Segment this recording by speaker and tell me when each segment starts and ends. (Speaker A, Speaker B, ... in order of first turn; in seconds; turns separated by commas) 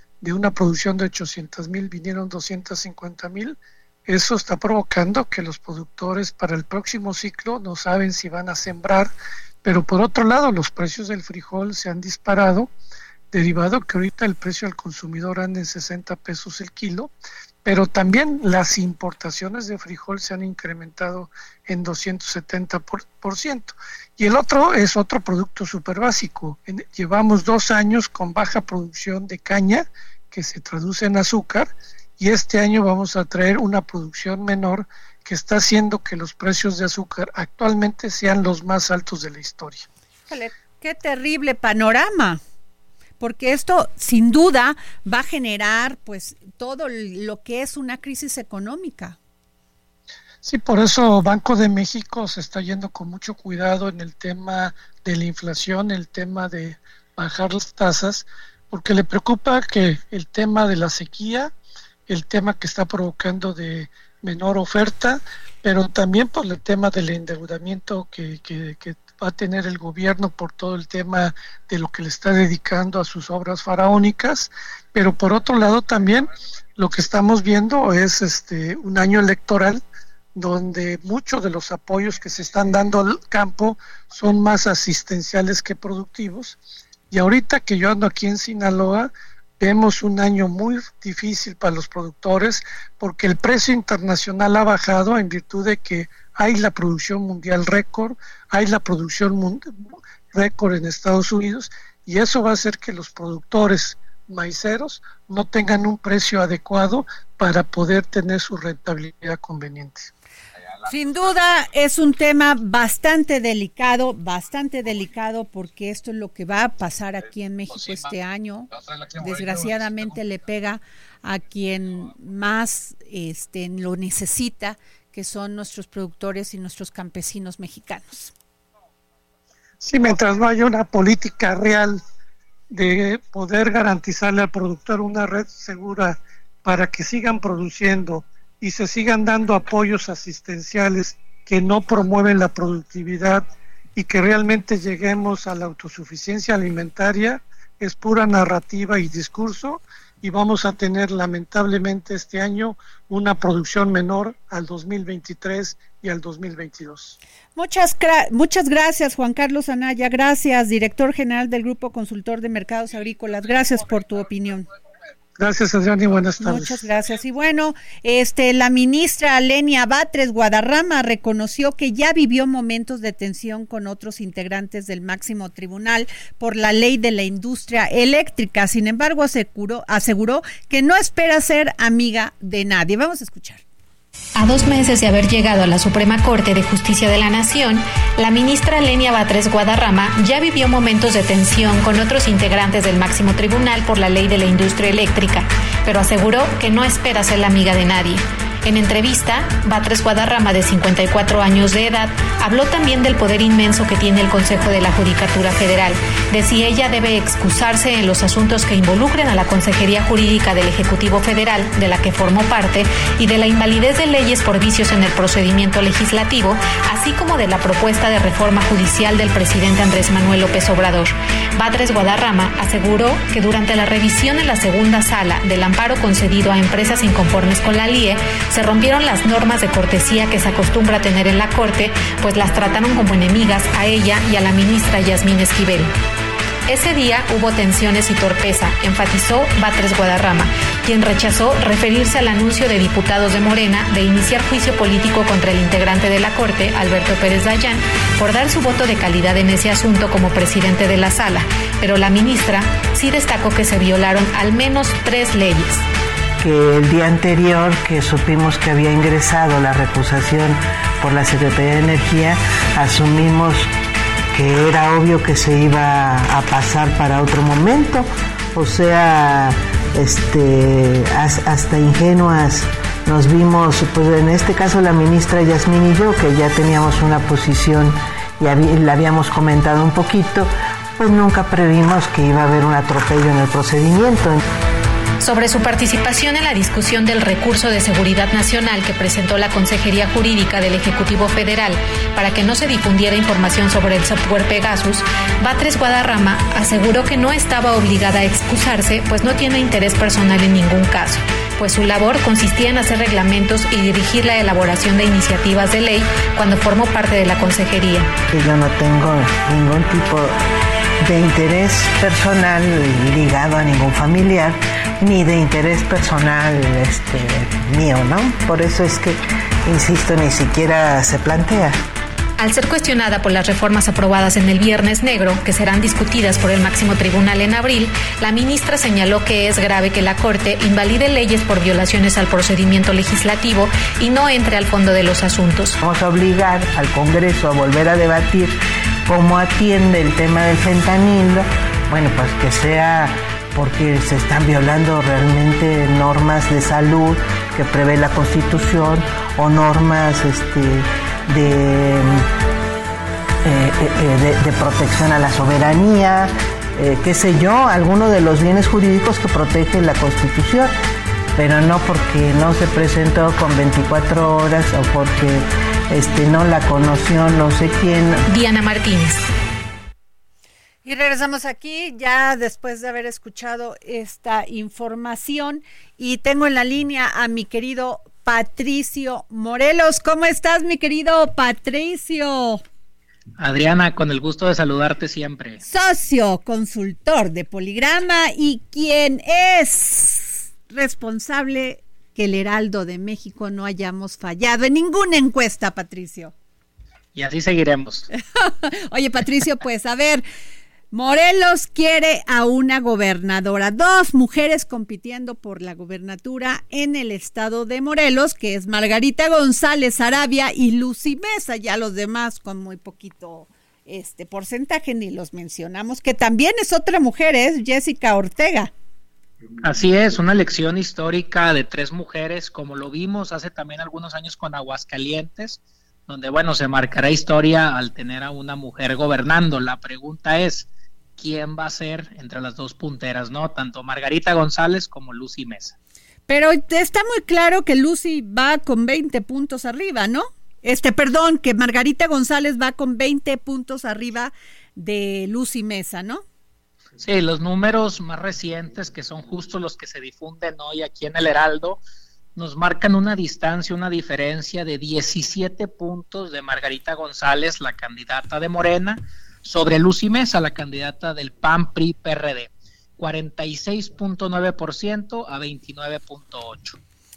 Speaker A: 0.2-12.7, Speaker A: 13.3-17.1, Speaker A: 17.6-39.9, Speaker B: 40.3-42.4, Speaker B: 43.2-49.2, Speaker A: 50.4-61.5, Speaker A: 62.1-79.8, Speaker A: 80.3-86.6, Speaker A: 87.1-110.1, Speaker B: 110.8-128.3, Speaker A: 129.8-132.0, Speaker A: 132.7-157.2, Speaker B: 157.6-164.7, Speaker A: 165.4-166.9, Speaker B: 166.4-183.6, Speaker C: 184.4-235.9, Speaker C: 236.7-255.8, Speaker D: 256.4-263.7, Speaker D: 264.3-284.4, Speaker C: 285.2-308.1, Speaker D: 308.3-310.4, Speaker D: 311.0-321.8, Speaker C: 322.4-335.8, Speaker D: 335.8-338.6, Speaker D: 339.1-352.2, Speaker D: 353.4-360.7, Speaker D: 361.4-368.2, Speaker C: 368.3-369.2, Speaker B: 370.8-382.6, Speaker E: 383.4-385.6, Speaker B: 385.6-396.3, Speaker E: 397.1-398.1, Speaker B: 398.3-400.2, Speaker B: 400.9-418.7, Speaker E: 419.6-435.8, Speaker B: 436.3-446.2, Speaker E: 447.0-451.8, Speaker E: 452.4-466.8